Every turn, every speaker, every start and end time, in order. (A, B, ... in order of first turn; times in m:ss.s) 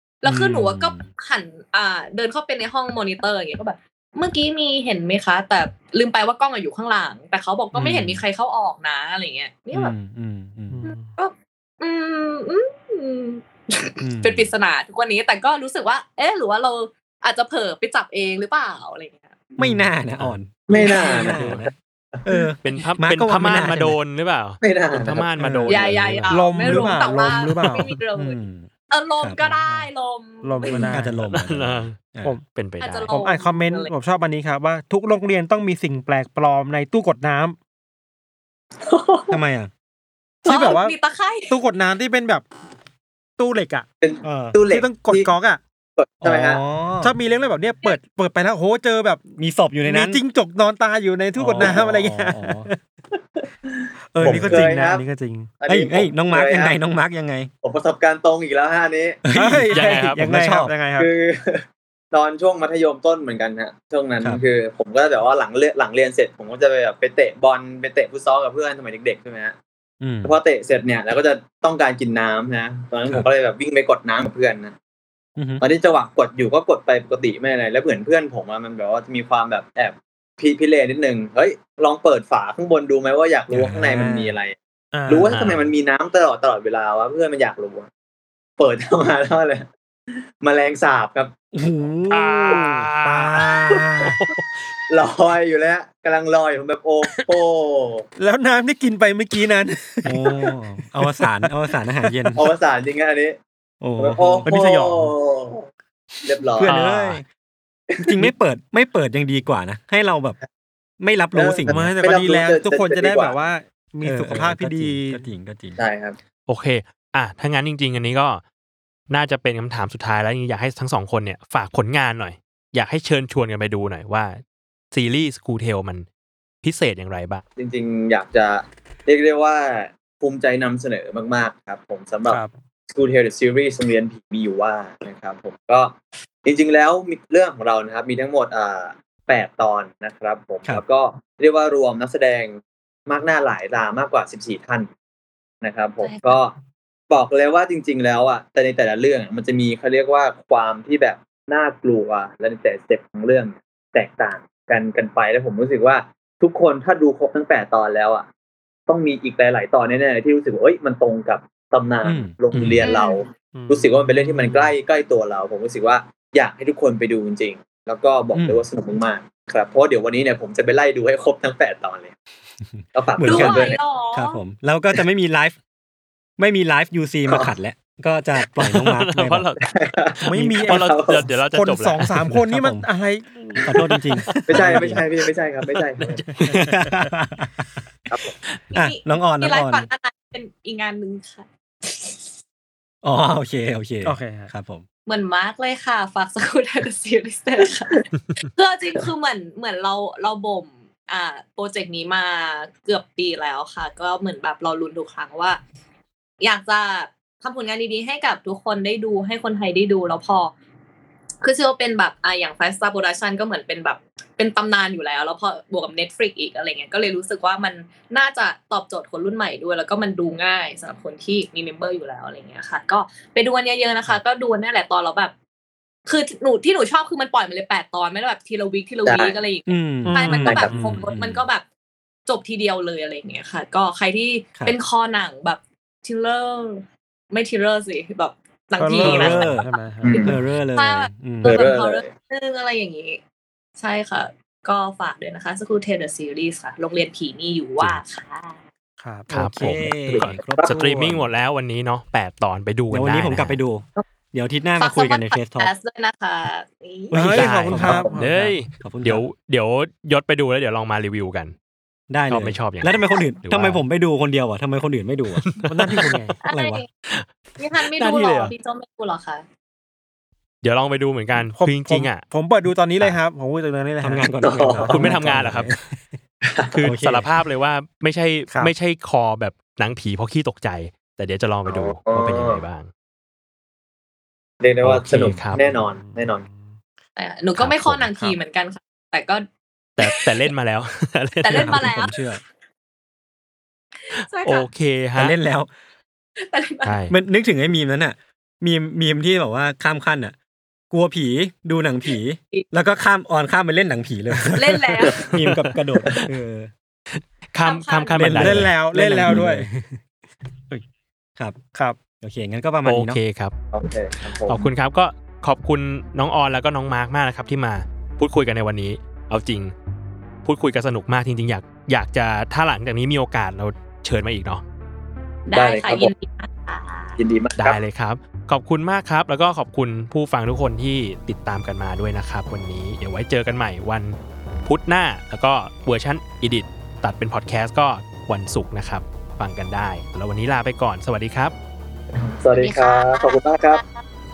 0:00.2-0:09.9 A
0:00.2-0:01.1 B
0:07.7-0:08.2 B
0:09.7-0:10.8 B
0:10.7-0:11.1 C
0:10.8-0:19.4 A
0:14.0-0:14.5 B
0:19.6-0:21.7 B
0:20.7-0:22.4 D
0:20.7-0:21.2 A
0:22.2-0:24.0 B
0:22.6-0:26.3 E
0:24.6-0:25.2 D
0:25.4-0:26.0 B
0:25.7-0:30.8 A
0:26.3-0:28.0 C
0:26.6-0:26.9 B
0:28.1-0:28.7 B
0:29.5-0:29.9 C
0:30.4-0:31.2 C
0:30.6-0:30.9 D
0:30.9-0:32.4 B
0:31.2-0:32.0 E
0:32.5-0:33.1 E
0:32.8-0:33.9 A
0:33.1-0:37.6 C
0:38.8-0:39.3 D
0:39.3-0:39.7 B
0:40.4-0:41.0 C
0:40.4-0:41.6 A
0:41.5-0:42.5 C
0:43.4-0:43.8 C
0:44.0-0:45.3 D
0:44.2-0:44.6 B
0:44.6-0:45.6 C
0:46.0-0:46.6 D
0:46.2-0:47.1 B
0:47.0-0:49.3 C
0:49.4-0:50.2 B
0:49.8-0:52.8 C
0:51.4-0:52.7 B
0:53.1-0:55.0 D
0:54.1-0:55.5 C
0:54.2-0:54.7 B
0:55.6-0:56.7 D
0:55.7-0:57.5 B
0:57.6-0:59.2 D
0:59.2-1:00.7 B
0:59.3-1:01.1 C
0:59.7-1:00.2 E
1:01.0-1:09.6 D
1:10.0-1:10.3 B
1:10.2-1:14.7 D
1:15.4-1:15.6 B
1:15.6-1:24.6 D
1:23.5-1:24.3 B
1:24.9-1:25.5 C
1:25.1-1:27.9 D
1:28.6-1:29.7 D
1:30.4-1:31.3 D
1:31.5-1:32.6 B
1:32.1-1:34.6 E
1:32.5-1:34.2 C
1:34.9-1:38.0 D
1:38.2-1:41.5 C
1:40.0-1:42.4 B
1:42.1-1:42.4 C
1:42.4-1:43.4 D
1:43.8-1:44.5 B
1:44.0-1:45.7 D
1:44.4-1:45.1 C
1:46.2-1:46.7 D
1:46.6-1:47.2 B
1:46.6-1:47.2 E
1:47.9-1:48.3 D
1:48.0-1:50.4 B
1:51.0-1:51.9 B
1:51.3-1:53.4 D
1:51.7-1:55.2 C
1:54.0-1:55.8 B
1:55.8-1:56.2 D
1:56.5-1:58.4 E
1:59.1-2:04.4 E
2:04.9-2:06.0 E
2:06.6-2:07.4 E
2:07.6-2:24.9 D
2:25.6-2:26.5 D
2:26.0-2:26.4 A
2:27.1-2:38.3 D
2:38.9-2:52.1 D
2:42.0-2:42.8 B
2:42.8-2:43.2 A
2:43.5-2:44.7 C
2:48.3-2:48.6 B
2:52.6-2:55.6 B
2:52.9-2:53.8 D
2:53.2-2:54.4 A
2:56.4-2:59.5 B
2:58.7-3:02.3 E
2:59.7-3:00.1 D
3:00.2-3:00.8 C
3:00.3-3:00.8 B
3:00.6-3:01.3 D
3:01.5-3:04.0 C
3:02.3-3:02.8 B
3:03.6-3:05.0 B
3:04.3-3:04.9 E
3:04.5-3:06.2 D
3:06.0-3:06.9 E
3:06.4-3:07.7 B
3:08.1-3:08.3 D
3:08.7-3:12.2 A
3:08.7-3:09.9 B
3:13.0-3:14.8 B
3:14.0-3:14.5 C
3:15.0-3:18.0 A
3:18.5-3:25.6 A
3:26.4-3:30.5 A
3:31.4-3:45.3 A
3:46.0-3:51.6 A
3:49.0-3:49.4 D
3:49.7-3:51.5 B
3:50.0-3:51.0 C
3:52.2-3:59.6 A
3:58.8-4:00.4 C
3:59.0-3:59.7 B
4:00.0-4:00.3 D
4:00.2-4:01.7 B
4:00.7-4:03.2 A
4:01.4-4:02.1 D
4:03.8-4:08.6 A
4:09.0-4:09.3 C
4:09.3-4:13.6 E
4:09.3-4:11.3 B
4:10.1-4:10.8 D
4:12.9-4:15.7 B
4:14.8-4:17.2 A
4:17.1-4:18.5 C
4:17.1-4:18.1 B
4:17.2-4:21.5 E
4:17.8-4:18.2 D
4:18.8-4:19.2 B
4:22.1-4:25.6 B
4:22.3-4:23.8 E
4:25.4-4:26.2 E
4:25.6-4:26.4 C
4:26.4-4:26.8 B
4:26.4-4:26.9 A
4:27.1-4:28.5 E
4:27.6-4:29.4 A
4:30.6-4:32.2 E
4:31.5-4:34.9 C
4:34.0-4:36.0 B
4:34.4-4:35.1 D
4:34.9-4:35.7 E
4:36.5-4:36.8 D
4:36.7-4:42.9 E
4:36.8-4:37.3 B
4:41.6-4:42.6 D
4:44.6-4:46.4 D
4:44.8-4:45.6 E
4:45.6-4:46.8 C
4:47.2-4:49.4 A
4:47.6-4:48.1 E
4:50.0-4:50.4 A
4:50.0-4:51.8 E
4:51.4-4:52.2 A
4:51.5-4:52.4 B
4:54.0-4:54.7 A
4:54.4-4:55.4 E
4:55.2-4:55.7 B
4:56.4-4:56.9 A
4:56.8-4:57.1 E
4:57.1-5:00.3 B
5:00.9-5:06.7 B
5:04.6-5:05.1 A
5:05.3-5:06.2 E
5:07.1-5:08.7 E
5:07.6-5:08.2 A
5:08.2-5:09.7 B
5:08.3-5:09.9 C
5:12.2-5:13.2 B
5:12.8-5:13.5 E
5:13.7-5:14.7 D
5:14.5-5:19.7 E
5:20.4-5:24.6 E
5:25.4-5:27.2 A
5:25.5-5:26.1 D
5:27.2-5:27.8 D
5:27.6-5:41.5 E
5:42.1-5:43.8 D
5:42.6-5:44.0 A